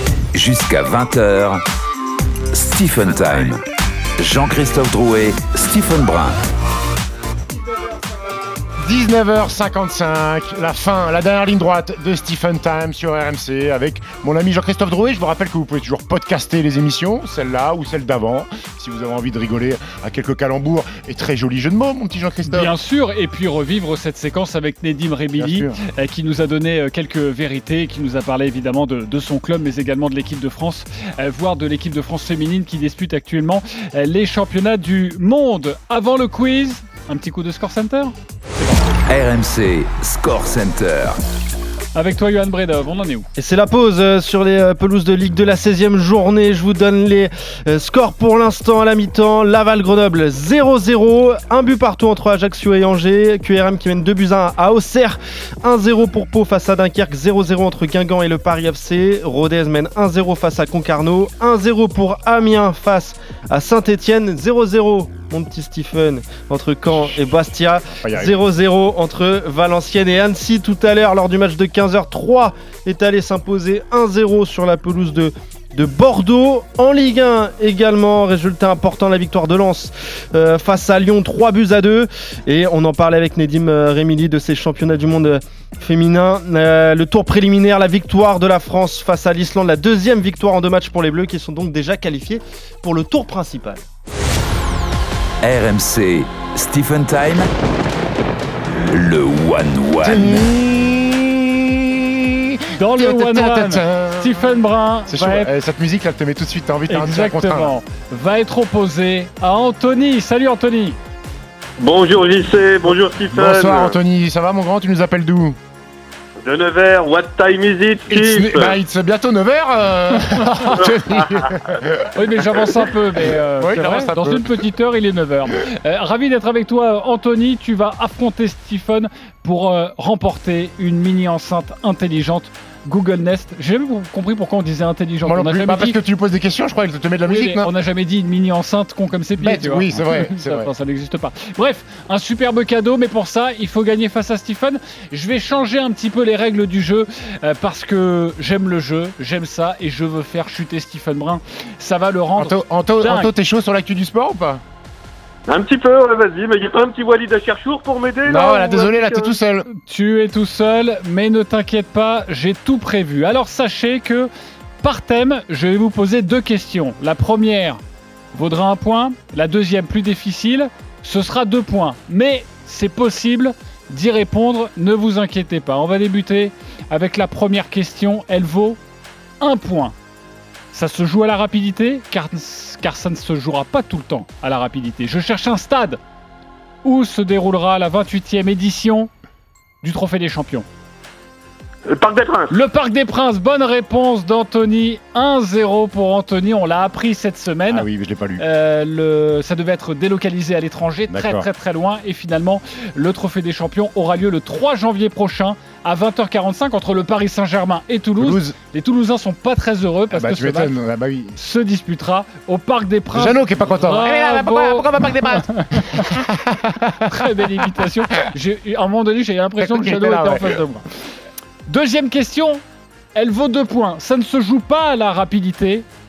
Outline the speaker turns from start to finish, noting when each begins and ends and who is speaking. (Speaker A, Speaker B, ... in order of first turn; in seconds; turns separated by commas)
Speaker A: 0.3-1.6, Speaker A: 2.5-3.6, Speaker A: 4.2-6.4, Speaker B: 8.8-22.7, Speaker C: 22.4-38.7, Speaker B: 25.4-25.8, Speaker A: 39.1-41.2, Speaker C: 41.9-43.3, Speaker D: 43.4-93.8, Speaker B: 68.0-68.4, Speaker A: 95.4-97.5, Speaker A: 98.8-100.5, Speaker B: 100.0-107.7, Speaker C: 102.7-105.5, Speaker C: 106.9-111.0, Speaker E: 111.8-114.0, Speaker B: 113.3-115.6, Speaker E: 116.4-118.8, Speaker B: 118.1-122.2, Speaker C: 120.2-120.7, Speaker C: 122.1-136.0, Speaker B: 123.6-124.6, Speaker B: 135.2-137.7, Speaker C: 137.2-153.3, Speaker B: 139.4-140.7, Speaker B: 152.3-154.6, Speaker E: 155.5-159.3, Speaker B: 158.2-159.7, Speaker C: 159.7-164.3, Speaker C: 164.8-167.8, Speaker C: 168.3-178.8, Speaker C: 179.4-179.9, Speaker C: 180.7-186.0, Speaker C: 186.8-189.1, Speaker C: 189.8-190.7, Speaker E: 191.8-192.5, Speaker C: 192.5-197.8, Speaker B: 197.7-198.4, Speaker C: 198.4-210.8, Speaker B: 201.1-201.5, Speaker B: 208.2-208.6, Speaker B: 210.1-211.4, Speaker C: 211.3-216.2, Speaker B: 213.1-217.8, Speaker C: 217.0-220.9, Speaker B: 219.6-220.6, Speaker C: 221.7-222.6, Speaker C: 223.1-225.8